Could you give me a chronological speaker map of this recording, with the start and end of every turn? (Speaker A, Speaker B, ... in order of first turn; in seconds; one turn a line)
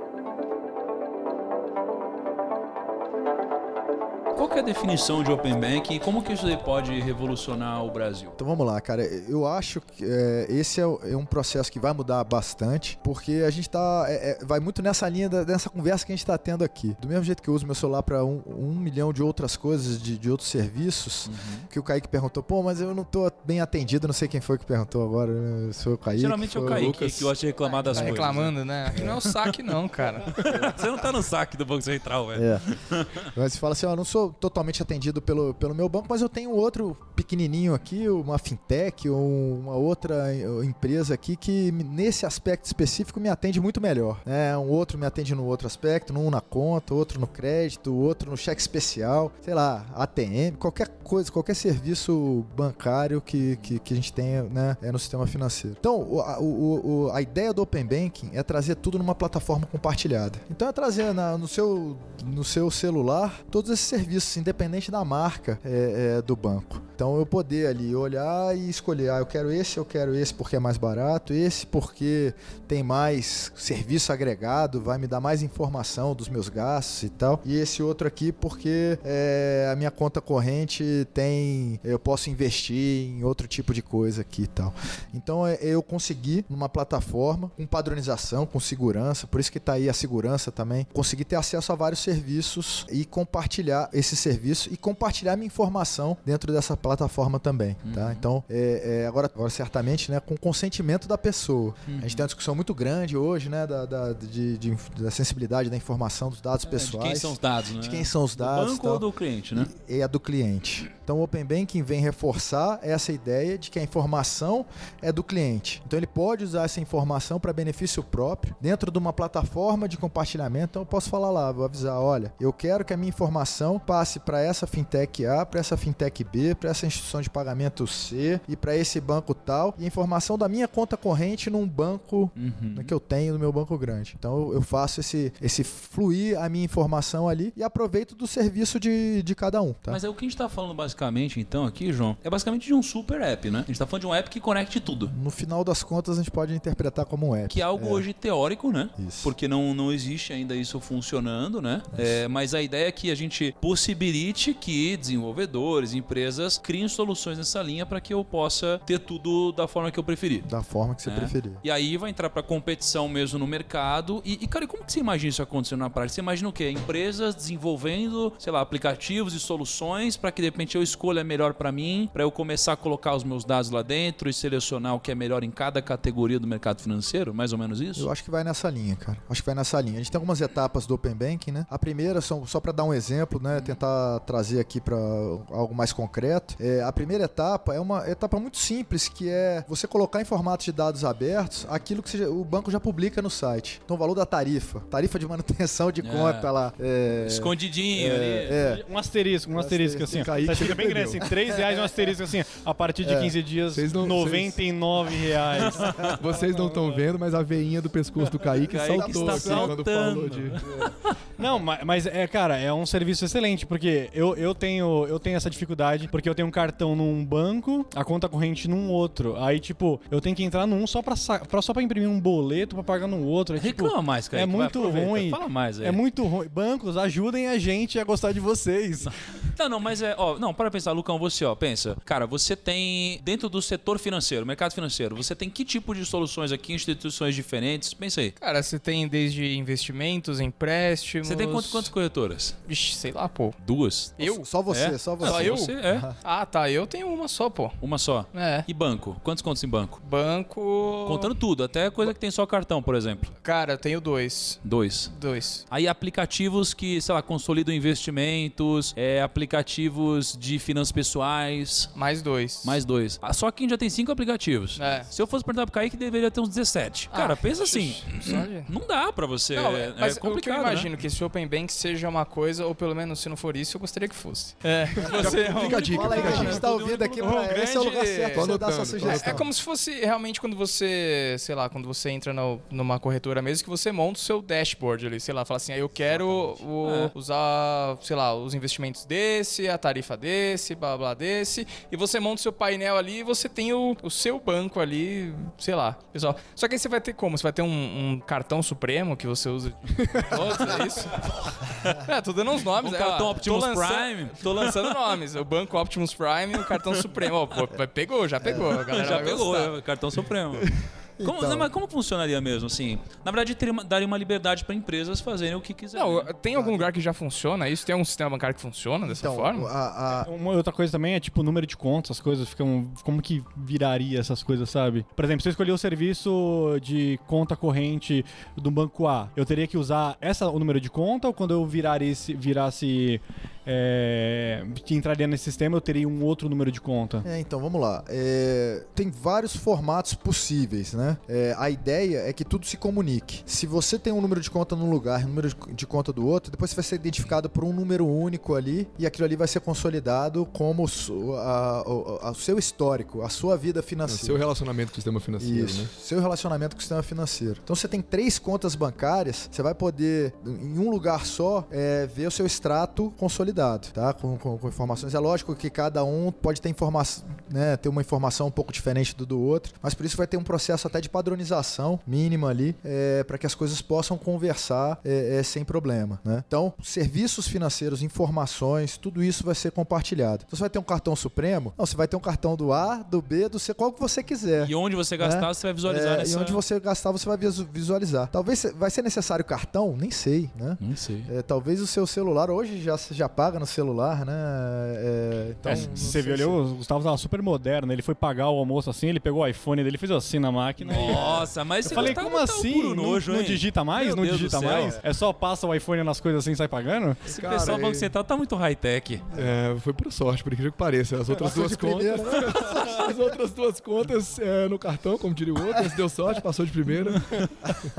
Speaker A: 4.3-8.3
Speaker B: 8.4-27.0
Speaker A: 21.3-21.7
Speaker A: 26.1-29.3
Speaker C: 26.6-27.3
Speaker B: 27.9-28.4
Speaker D: 27.9-30.7
Speaker B: 28.9-29.2
Speaker A: 30.4-33.3
Speaker B: 30.4-30.9
Speaker B: 32.4-32.7
Speaker B: 33.2-140.0
Speaker A: 97.8-98.2
Speaker A: 101.9-102.2
Speaker A: 106.6-109.7
Speaker A: 132.4-132.9
Speaker A: 139.9-145.1
Speaker B: 145.1-148.1
Speaker A: 147.5-160.5
Speaker B: 149.0-149.3
Speaker B: 160.4-161.6
Speaker A: 161.0-178.1
Speaker B: 178.0-198.8
Speaker A: 183.5-183.8
Speaker A: 196.0-196.5
Speaker A: 197.2-198.6
Speaker E: 198.6-206.9
Speaker B: 199.5-200.3
Speaker C: 200.1-201.2
Speaker B: 201.3-202.1
Speaker B: 203.0-203.4
Speaker C: 203.7-204.6
Speaker A: 205.6-206.2
Speaker C: 206.2-210.6
Speaker A: 208.5-211.1
Speaker B: 208.9-209.8
Speaker B: 210.6-211.0
Speaker E: 211.4-229.1
Speaker A: 223.6-226.0
Speaker A: 229.0-238.3
Speaker D: 238.4-241.9
Speaker A: 241.2-242.6
Speaker D: 242.7-243.6
Speaker A: 243.6-246.1
Speaker D: 244.2-244.4
Speaker B: 244.2-246.2
Speaker D: 245.2-247.8
Speaker A: 247.8-250.0
Speaker D: 248.3-248.7
Speaker D: 250.0-251.3
Speaker A: 251.1-253.3
Speaker D: 253.4-255.6
Speaker A: 254.6-255.1
Speaker A: 255.7-261.9
Speaker D: 261.9-262.8
Speaker A: 262.6-270.9
Speaker D: 264.8-265.1
Speaker D: 267.1-268.7
Speaker D: 269.5-309.7
Speaker C: 275.0-276.6
Speaker B: 275.1-279.5
Speaker A: 276.1-277.5
Speaker C: 278.3-279.4
Speaker B: 286.1-286.6
Speaker A: 286.8-287.1
Speaker C: 299.9-300.4
Speaker A: 302.7-305.1
Speaker A: 306.5-307.6
Speaker B: 308.4-308.8
Speaker A: 308.5-316.3
Speaker B: 311.2-311.7
Speaker D: 315.9-319.7
Speaker B: 316.5-316.9
Speaker B: 319.1-320.3
Speaker E: 320.1-337.3
Speaker B: 337.2-354.4
Speaker C: 354.1-355.9
Speaker B: 355.4-396.6
Speaker A: 384.6-386.6
Speaker A: 390.8-391.3
Speaker E: 395.6-407.2
Speaker A: 395.7-396.0
Speaker A: 400.9-405.0
Speaker B: 400.9-402.1
Speaker A: 407.2-409.3
Speaker C: 407.3-408.1
Speaker C: 409.4-417.4
Speaker B: 411.4-413.1